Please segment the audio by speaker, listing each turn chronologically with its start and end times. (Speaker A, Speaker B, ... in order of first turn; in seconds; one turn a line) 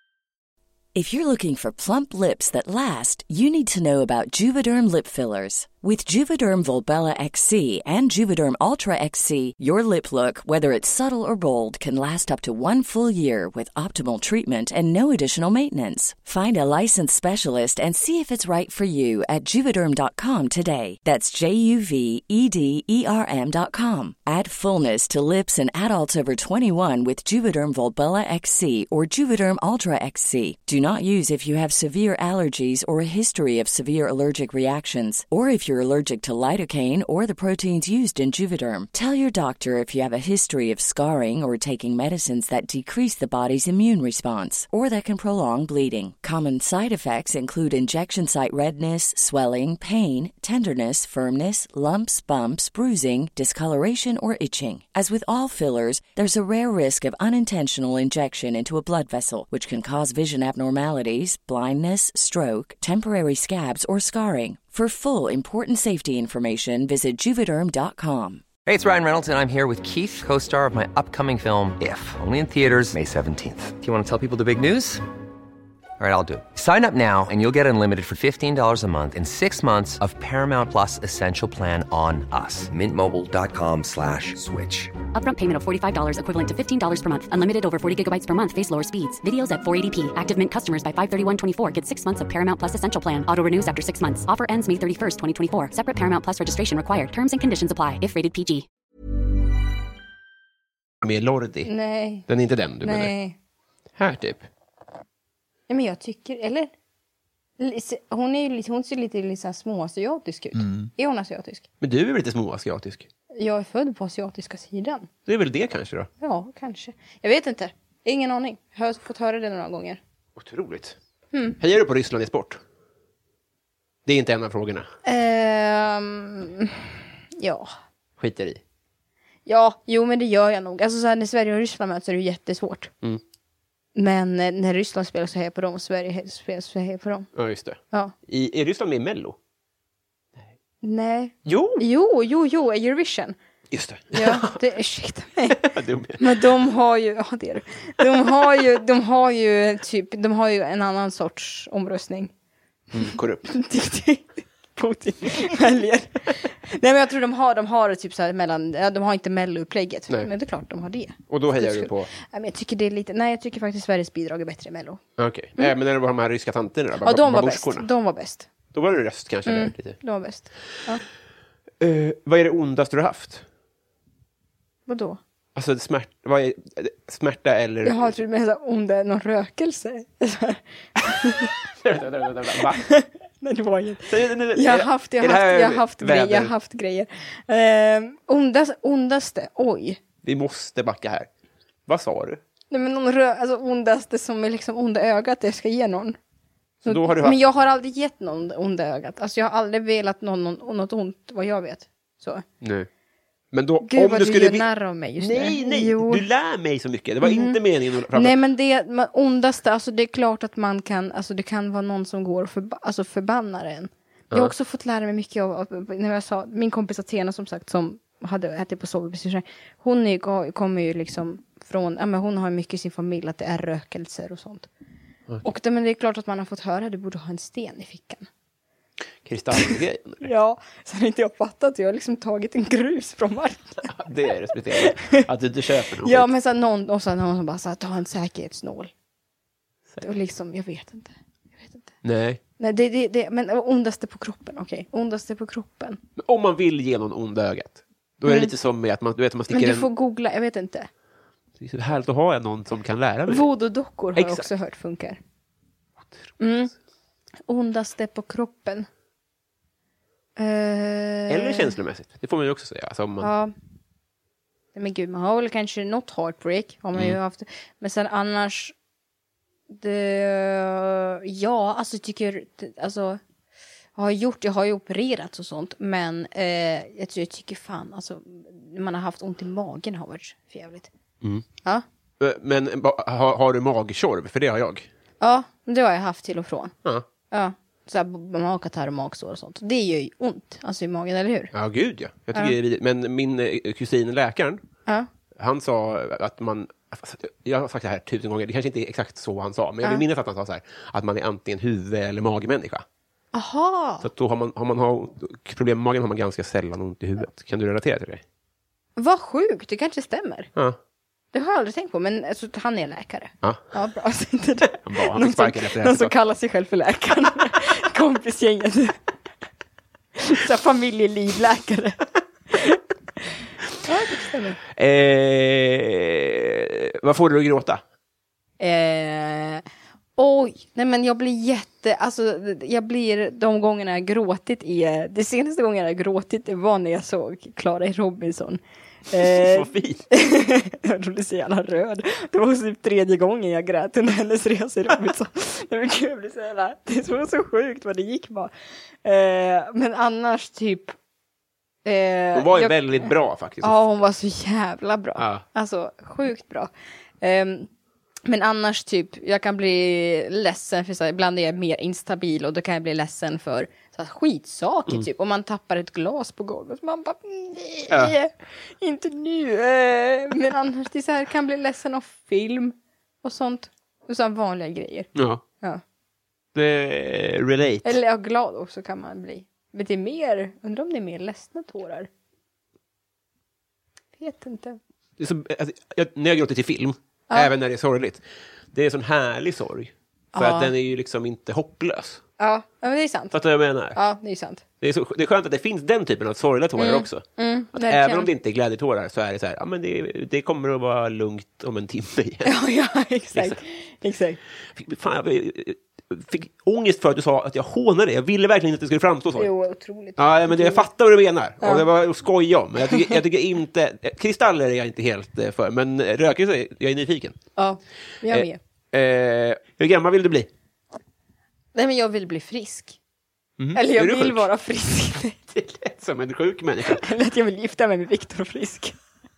Speaker A: 0.9-68.5
Speaker B: 68.6-75.0
Speaker B: 76.0-84.9
Speaker C: 85.1-98.7
Speaker D: 101.0-101.7
Speaker E: 101.6-102.3
Speaker D: 102.3-103.1
Speaker E: 102.8-103.3
Speaker D: 104.0-104.4
Speaker E: 105.7-106.7
Speaker E: 107.6-111.6
Speaker D: 110.5-110.9
Speaker D: 111.8-113.1
Speaker E: 113.3-115.1
Speaker D: 115.2-116.1
Speaker E: 116.2-120.0
Speaker D: 120.3-121.0
Speaker E: 121.3-121.6
Speaker D: 121.6-122.6
Speaker D: 124.0-124.9
Speaker E: 125.0-127.7
Speaker D: 128.2-128.6
Speaker E: 129.4-132.9
Speaker E: 133.9-137.3
Speaker D: 137.3-139.4
Speaker E: 140.8-143.3
Speaker D: 141.4-141.8
Speaker D: 143.7-144.6
Speaker E: 144.1-152.3
Speaker D: 145.5-146.4
Speaker D: 152.9-153.5
Speaker E: 153.5-165.0
Speaker D: 161.3-162.1
Speaker D: 165.2-167.9
Speaker E: 167.0-168.5
Speaker D: 168.7-170.0
Speaker E: 169.4-171.0
Speaker D: 171.8-173.4
Speaker E: 174.9-175.2
Speaker D: 175.5-178.1
Speaker E: 177.8-181.5
Speaker D: 181.7-182.8
Speaker E: 182.8-190.0
Speaker D: 184.1-186.5
Speaker D: 190.2-191.3
Speaker D: 191.8-192.4
Speaker E: 192.7-196.2
Speaker D: 196.8-197.4
Speaker E: 196.8-202.4
Speaker D: 202.6-202.9
Speaker D: 203.5-204.7
Speaker E: 203.8-206.2
Speaker D: 205.2-208.3
Speaker E: 207.2-207.6
Speaker E: 208.1-224.7
Speaker E: 225.4-228.3
Speaker D: 229.2-230.3
Speaker E: 229.6-233.9
Speaker D: 233.9-236.3
Speaker E: 234.8-235.2
Speaker E: 236.0-238.9
Speaker E: 240.0-241.9
Speaker D: 242.0-242.4
Speaker E: 242.6-246.0
Speaker D: 246.2-249.9
Speaker E: 248.2-248.5
Speaker E: 249.5-250.9
Speaker D: 251.6-253.4
Speaker E: 253.3-255.2
Speaker D: 254.1-254.5
Speaker E: 256.4-256.7
Speaker E: 257.5-258.9
Speaker E: 260.4-261.8
Speaker D: 261.3-263.3
Speaker E: 263.2-263.5
Speaker E: 264.7-268.7
Speaker E: 269.7-273.2
Speaker E: 273.9-280.9
Speaker D: 282.2-284.9
Speaker E: 285.2-286.7
Speaker E: 287.3-291.5
Speaker D: 291.5-294.6
Speaker D: 295.3-302.8
Speaker E: 303.3-304.1
Speaker D: 304.0-308.2
Speaker E: 309.0-310.5
Speaker E: 311.3-319.0
Speaker D: 314.8-316.1
Speaker E: 320.2-322.8
Speaker E: 323.8-324.6
Speaker D: 324.7-327.8
Speaker E: 328.6-329.6
Speaker E: 330.2-348.5
Speaker D: 339.2-340.0
Speaker E: 349.0-350.9
Speaker E: 351.8-357.7
Speaker D: 352.3-353.8
Speaker D: 355.1-355.4
Speaker E: 358.2-375.1
Speaker D: 367.9-368.1
Speaker D: 375.1-375.4
Speaker D: 376.5-378.0
Speaker E: 377.8-382.1
Speaker E: 384.2-384.8
Speaker D: 385.2-392.2
Speaker E: 390.3-390.7
Speaker E: 392.4-393.3
Speaker D: 393.3-394.0
Speaker E: 393.9-394.6
Speaker D: 394.8-402.5
Speaker E: 396.8-398.3
Speaker E: 402.4-404.4
Speaker D: 403.3-403.6
Speaker D: 404.7-409.5
Speaker E: 409.4-410.9
Speaker D: 410.2-417.4
Speaker E: 411.6-411.9
Speaker E: 417.6-418.6
Speaker D: 418.3-420.5
Speaker E: 421.7-423.0
Speaker D: 423.6-424.4
Speaker E: 423.7-425.5
Speaker D: 425.5-427.0
Speaker E: 426.9-428.9